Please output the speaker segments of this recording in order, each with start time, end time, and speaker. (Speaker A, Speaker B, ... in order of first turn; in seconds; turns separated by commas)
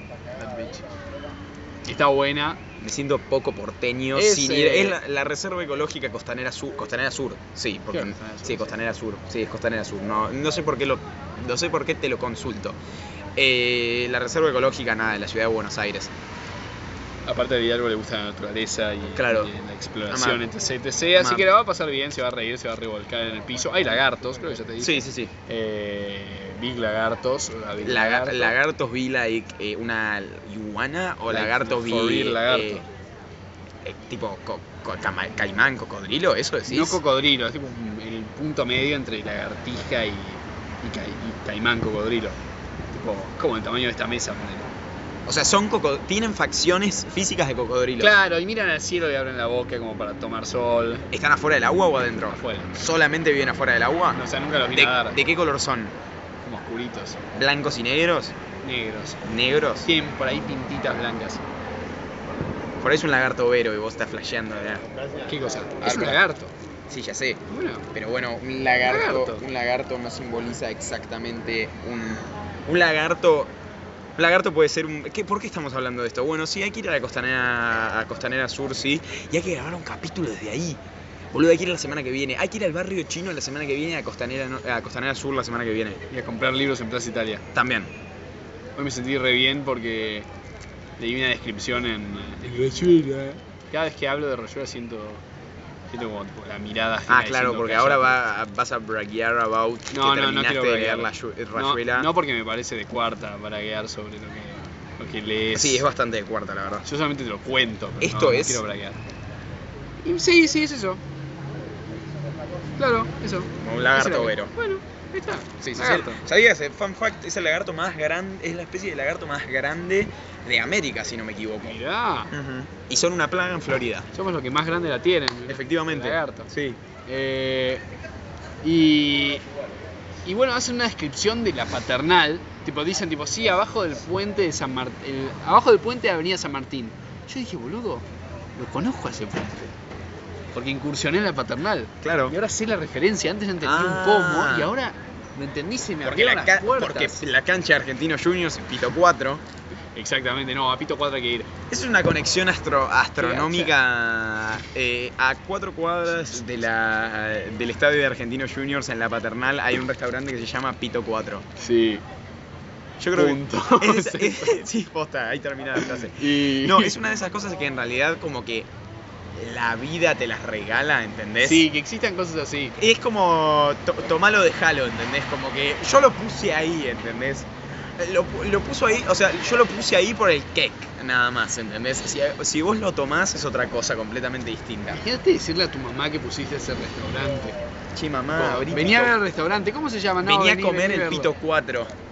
Speaker A: 0.4-0.8, Speaker A: 1.8-2.6, Speaker B: 2.8-12.8, Speaker A: 4.1-5.0, Speaker A: 7.9-8.7, Speaker B: 13.3-16.1, Speaker A: 17.3-28.5, Speaker B: 19.1-19.5, Speaker B: 20.1-20.4, Speaker B: 21.2-21.5, Speaker B: 24.8-25.3, Speaker B: 27.8-32.8, Speaker A: 31.3-32.9, Speaker B: 33.8-37.0, Speaker A: 36.6-42.4, Speaker A: 42.9-44.7, Speaker B: 45.2-48.2, Speaker A: 48.0-51.1, Speaker B: 51.1-55.9, Speaker A: 52.3-52.8, Speaker A: 54.1-55.2, Speaker A: 56.4-57.2, Speaker B: 57.3-58.3, Speaker A: 58.6-59.2, Speaker B: 59.2-59.9, Speaker A: 59.8-61.4, Speaker B: 62.8-64.8, Speaker A: 65.2-66.5, Speaker B: 65.8-66.2, Speaker B: 66.9-67.4, Speaker A: 67.5-67.9, Speaker B: 67.9-73.5, Speaker A: 68.8-69.4, Speaker B: 74.2-80.8, Speaker B: 81.3-86.0, Speaker A: 86.1-87.4, Speaker B: 87.5-87.9, Speaker A: 88.8-90.3, Speaker A: 91.0-95.2, Speaker A: 95.9-98.2, Speaker B: 97.1-102.1, Speaker A: 99.9-105.9, Speaker B: 105.5-106.8, Speaker A: 106.8-109.0, Speaker B: 108.0-108.6, Speaker A: 110.0-111.0, Speaker A: 112.8-116.2, Speaker B: 113.6-114.5, Speaker B: 115.6-121.8, Speaker A: 121.6-122.3, Speaker B: 122.3-124.1, Speaker A: 124.1-126.5, Speaker B: 125.5-126.8, Speaker A: 127.0-127.8, Speaker A: 128.6-129.4, Speaker A: 130.2-138.0, Speaker A: 138.6-139.7, Speaker A: 140.5-147.2, Speaker B: 142.0-142.4, Speaker B: 143.6-144.7, Speaker B: 146.0-149.4, Speaker A: 149.9-151.5, Speaker B: 151.7-161.4, Speaker A: 153.2-153.7, Speaker A: 161.6-162.0, Speaker B: 163.0-168.7, Speaker A: 163.1-164.5, Speaker A: 165.8-167.0, Speaker B: 169.3-171.7, Speaker A: 171.4-172.8, Speaker B: 172.8-185.0, Speaker A: 184.9-187.6, Speaker B: 187.9-189.2, Speaker A: 188.3-191.3, Speaker B: 190.2-191.9